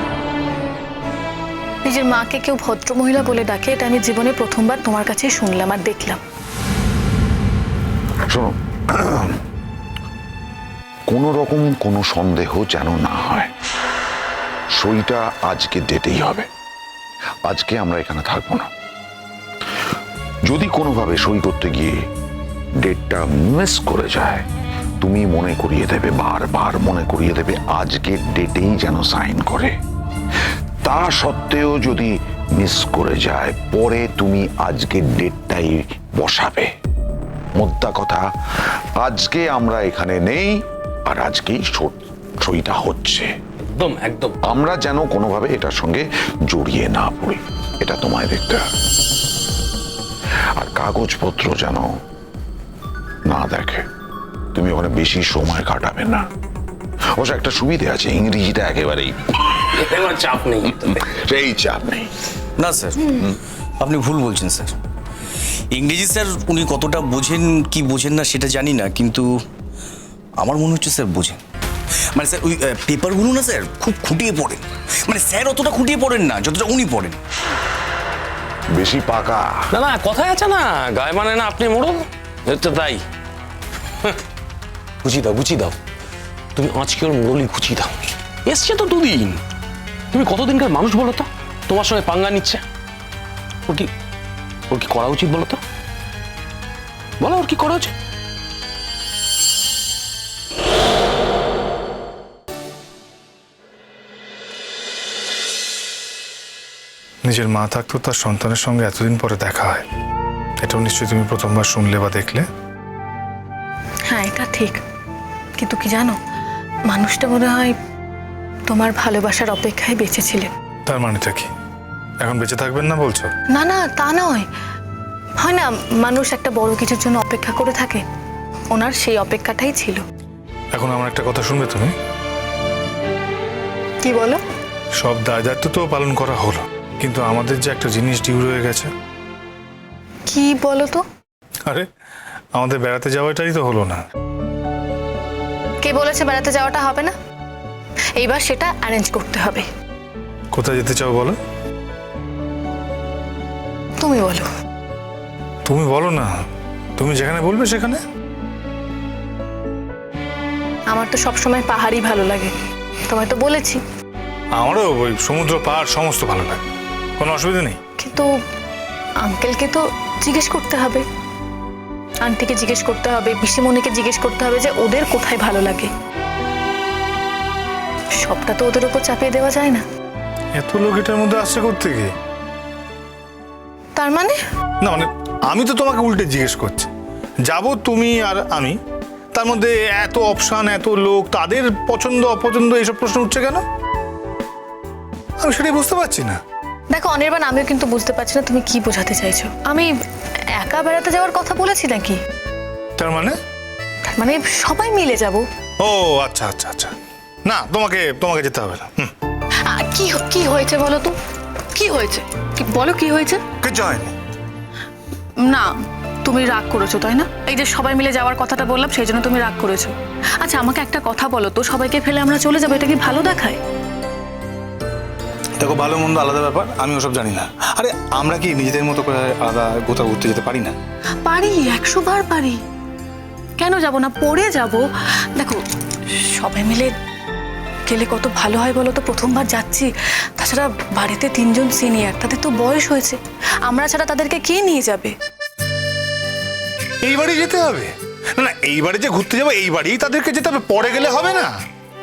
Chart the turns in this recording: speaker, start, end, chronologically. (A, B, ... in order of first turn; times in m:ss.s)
0:01.8-0:06.2 A
0:08.3-0:09.4 B
0:11.1-0:13.5 B
0:14.8-0:16.5 B
0:17.5-0:18.7 B
0:20.4-0:22.0 B
0:22.8-0:24.4 B
0:25.0-0:29.7 B
0:30.8-0:36.7 B
0:37.6-0:38.2 B
0:39.0-0:43.3 B
0:43.7-0:44.6 C
0:44.4-0:48.6 B
0:50.6-0:51.9 B
0:53.3-0:53.8 B
0:54.6-0:56.2 B
0:57.2-0:59.6 B
0:59.8-1:01.0 C
1:00.8-1:02.1 B
1:02.6-1:04.7 D
1:05.7-1:09.3 D
1:10.4-1:11.4 D
1:12.1-1:17.2 D
1:18.7-1:19.7 B
1:19.7-1:23.0 C
1:25.0-1:25.8 C
1:26.6-1:29.4 C
1:30.1-1:32.6 C
1:34.7-1:35.6 C
1:37.2-1:37.9 C
1:47.2-1:49.8 E
1:50.6-1:52.4 E
1:54.1-1:54.8 A
1:55.6-1:56.2 A
1:56.9-1:57.7 A
1:58.7-2:00.5 A
2:00.9-2:01.5 E
2:02.2-2:03.3 E
2:03.5-2:04.4 A
2:05.4-2:08.0 A
2:08.7-2:10.0 A
2:10.7-2:11.9 E
2:14.0-2:14.4 A
2:15.0-2:18.9 E
2:20.3-2:21.0 A
2:22.5-2:24.0 E
2:25.8-2:27.1 A
2:28.2-2:29.7 A
2:30.5-2:31.4 E
2:34.0-2:34.4 A
2:35.7-2:36.3 E
2:37.0-2:38.0 E
2:40.9-2:42.5 A
2:43.1-2:43.8 A
2:44.6-2:46.6 E
2:47.2-2:47.8 E
2:48.0-2:48.3 A
2:49.2-2:51.0 A
2:52.2-2:55.9 A
2:58.2-2:59.8 A
3:00.6-3:02.1 E
3:04.0-3:04.4 A
3:04.8-3:06.9 E
3:07.5-3:08.8 E
3:09.3-3:13.6 E
3:15.4-3:16.4 E
3:16.9-3:19.9 A
3:20.6-3:22.2 A
3:23.0-3:23.4 E
3:24.1-3:25.4 A
3:25.8-3:26.9 E
3:27.5-3:29.1 E
3:29.7-3:31.2 A
3:31.7-3:33.4 A
3:33.6-3:34.2 E
3:35.4-3:35.7 A
3:36.2-3:43.6 A
3:45.6-3:50.7 E
3:51.2-3:52.6 A
3:53.6-3:54.8 A
3:55.4-3:55.6 A
3:56.1-3:56.9 A
3:57.9-4:05.1 A
4:07.0-4:11.5 E